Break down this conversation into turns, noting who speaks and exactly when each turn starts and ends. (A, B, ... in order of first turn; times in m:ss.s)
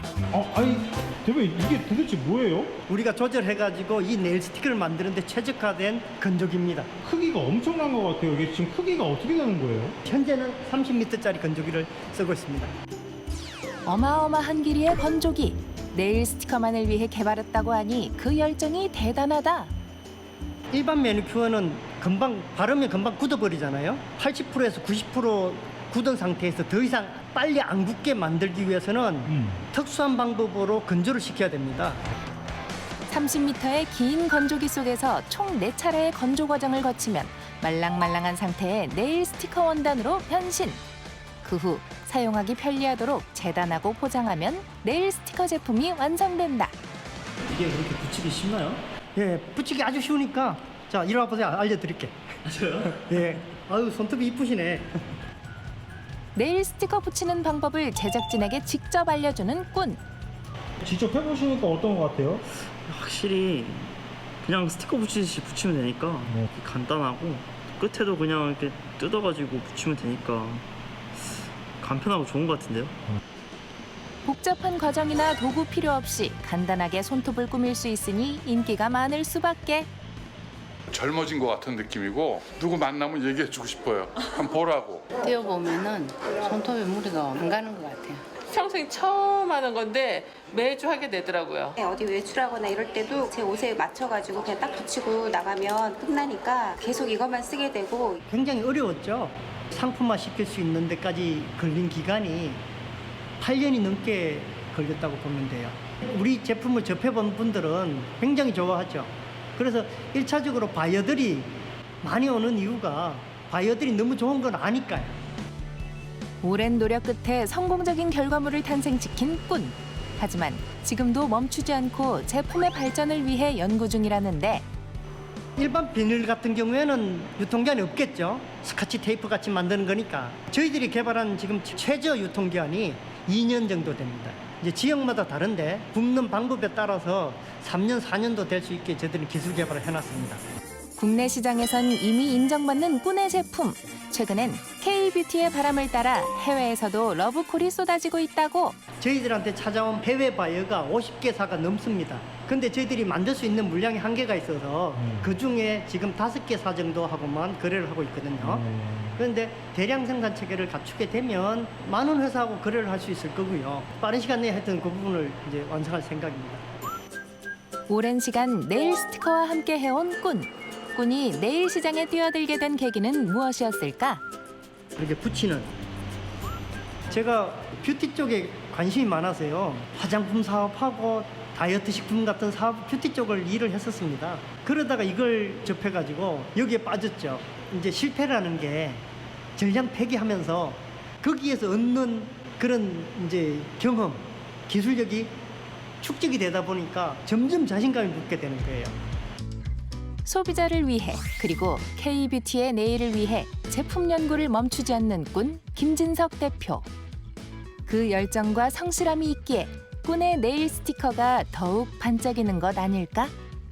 0:00.3-0:02.7 A
0:02.9-0:06.9 B
0:07.0-0:09.9 A
0:10.0-0:12.7 B
0:13.8-0:19.7 C
0:20.7-0:32.0 B
0:29.3-0:29.6 A
0:33.1-0:40.8 C
0:41.4-0:46.8 C
0:47.5-0:48.8 D
0:49.1-0:52.2 B
0:52.5-0:53.0 D
0:53.0-0:54.9 B
0:56.3-1:00.0 C
1:00.8-1:02.4 A
1:02.5-1:13.0 D
1:14.2-1:19.9 C
1:20.9-1:25.0 E
1:25.2-1:28.2 F
1:28.5-1:31.7 G
1:31.8-1:38.2 H
1:38.3-1:42.6 B
1:43.4-1:55.1 B
1:56.4-2:04.6 C
2:05.6-2:20.4 B
2:21.0-2:28.8 C
2:29.0-2:38.6 B
2:35.0-2:35.3 A
2:38.4-2:39.2 A
2:39.2-2:46.6 B
2:47.9-2:54.2 C
2:55.0-2:55.7 B
2:57.1-3:09.0 B
3:09.6-3:15.4 B
3:16.0-3:19.0 B
3:20.2-3:26.8 C
3:27.8-3:33.3 C